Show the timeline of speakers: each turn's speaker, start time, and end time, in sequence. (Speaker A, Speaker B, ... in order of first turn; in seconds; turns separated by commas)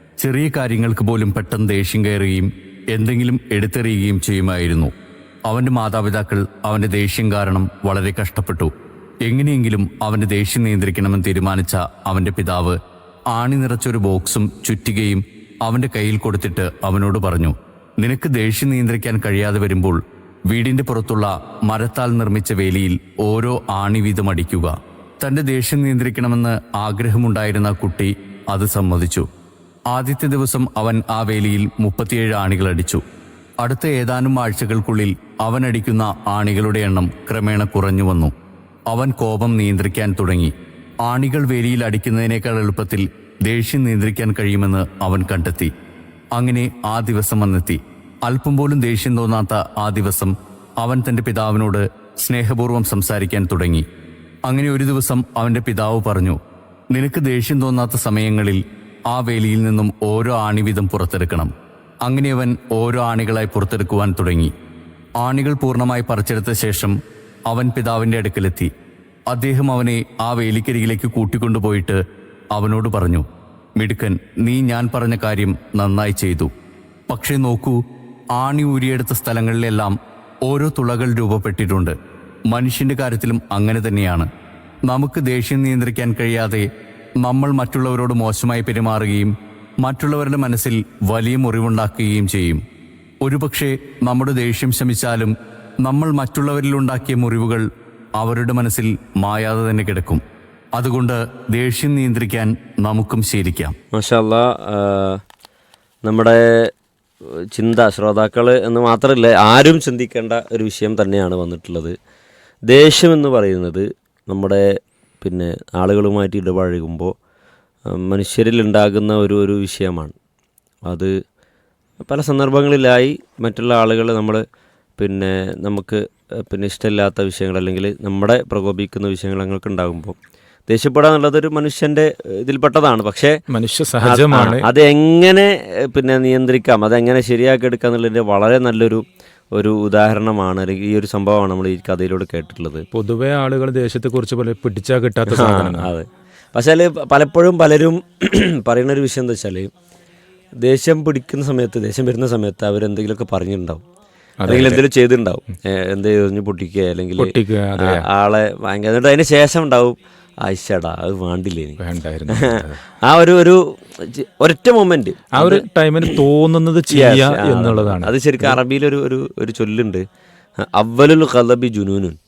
Speaker A: 0.2-4.9, Speaker A: 5.5-8.7, Speaker A: 9.2-12.8, Speaker A: 13.3-20.0, Speaker A: 20.5-29.3, Speaker A: 29.9-33.0, Speaker A: 33.6-38.3, Speaker A: 38.9-40.5, Speaker A: 41.0-45.7, Speaker A: 46.4-53.9, Speaker A: 54.5-56.4, Speaker A: 56.9-61.5, Speaker A: 62.0-64.5, Speaker A: 65.2-68.7, Speaker A: 69.3-72.0, Speaker A: 72.5-73.2, Speaker A: 73.8-76.5, Speaker A: 77.1-77.8, Speaker A: 78.4-82.0, Speaker A: 82.5-84.3, Speaker A: 84.9-86.7, Speaker A: 87.2-92.6, Speaker A: 93.2-95.3, Speaker A: 95.8-97.7, Speaker A: 98.2-100.2, Speaker A: 100.8-103.8, Speaker B: 103.9-105.2, Speaker B: 106.0-106.7, Speaker B: 107.5-112.0, Speaker B: 112.7-117.1, Speaker B: 117.9-120.2, Speaker B: 120.8-121.1, Speaker B: 122.0-124.4, Speaker B: 125.0-130.2, Speaker B: 130.7-133.4, Speaker C: 133.5-134.7, Speaker B: 134.0-139.0, Speaker B: 139.6-142.9, Speaker C: 142.9-145.9, Speaker B: 145.3-149.7, Speaker B: 150.6-153.8, Speaker C: 154.4-154.8, Speaker B: 154.5-166.0, Speaker C: 157.2-158.1, Speaker C: 161.8-162.8, Speaker C: 165.3-168.6, Speaker B: 166.9-170.0, Speaker B: 170.6-172.2